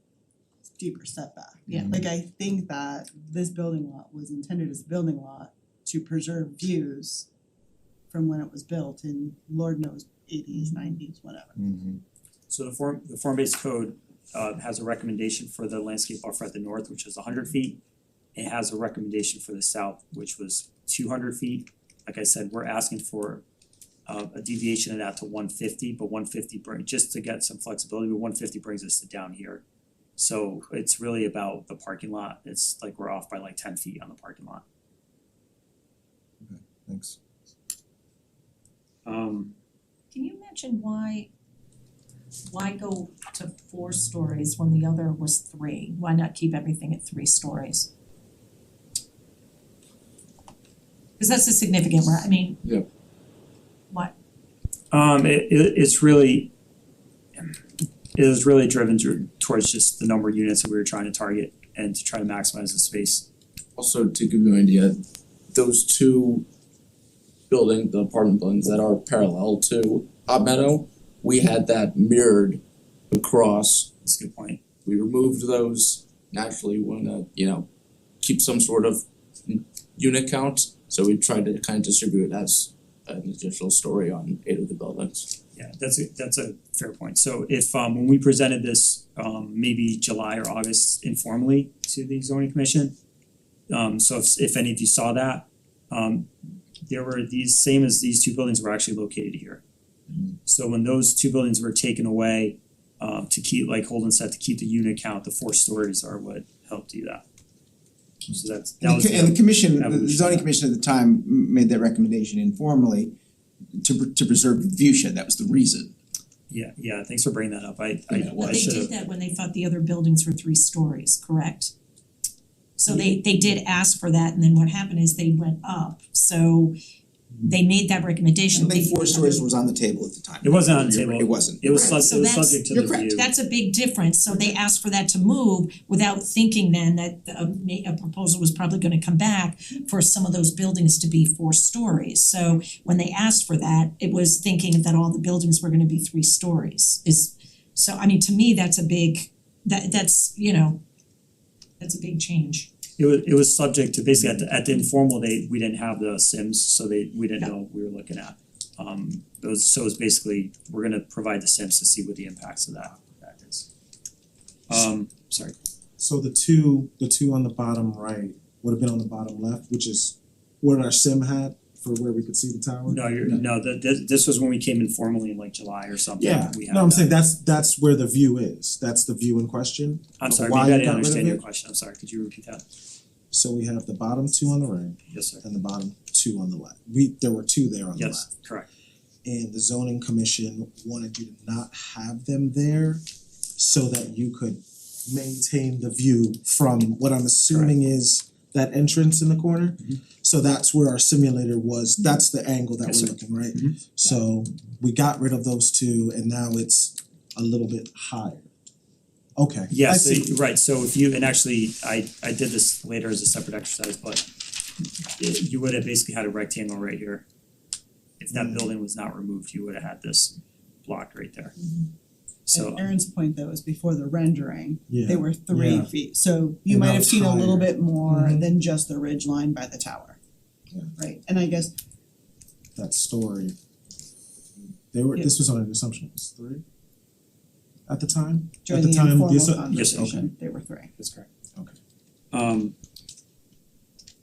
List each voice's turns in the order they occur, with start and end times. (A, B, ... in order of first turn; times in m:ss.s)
0:00.8-0:07.3 A
0:08.1-0:11.6 A
0:12.5-0:17.8 B
0:18.3-0:23.4 B
0:24.0-0:29.6 B
0:30.2-0:34.6 B
0:39.0-0:39.5 B
0:40.1-0:41.3 C
0:42.5-0:47.9 C
0:51.2-0:52.6 C
0:54.9-0:56.5 B
0:58.1-1:03.3 B
1:03.8-1:06.4 D
1:07.5-1:13.9 D
1:14.0-1:14.6 B
1:14.8-1:17.7 D
1:18.2-1:25.3 D
1:25.5-1:32.9 B
1:33.7-1:36.3 B
1:36.9-1:39.6 B
1:40.4-1:47.2 B
1:48.3-1:50.5 B
1:48.8-1:53.1 E
1:53.8-1:55.9 E
1:56.5-1:58.9 B
1:58.1-1:58.4 E
1:58.3-2:01.7 C
2:02.8-2:06.7 C
2:07.4-2:09.4 C
2:08.5-2:12.1 E
2:10.4-2:13.2 B
2:12.0-2:30.8 C
2:12.7-2:13.3 E
2:31.8-2:32.7 C
2:33.0-2:43.7 B
2:44.7-2:45.5 B
2:46.0-2:53.4 F
2:52.9-2:57.1 B
2:56.2-3:01.4 F
3:00.2-3:02.6 B
3:03.3-3:08.3 F
3:05.1-3:05.4 B
3:07.9-3:08.7 B
3:09.2-3:13.0 F
3:13.6-3:28.5 F
3:22.8-3:24.2 B
3:29.4-3:30.3 F
3:29.7-3:34.2 B
3:35.2-3:37.2 B
3:38.2-3:41.5 B
3:38.3-3:38.7 F
3:42.5-3:42.8 B
3:42.5-3:50.2 A
3:44.9-3:45.9 F
3:46.7-3:48.4 F
3:51.0-3:51.7 A
3:52.8-3:53.5 F
3:54.9-3:56.6 F
3:57.9-4:00.2 F
3:58.6-4:00.9 A
3:59.7-4:00.2 B
4:01.0-4:01.3 B
4:02.3-4:02.7 B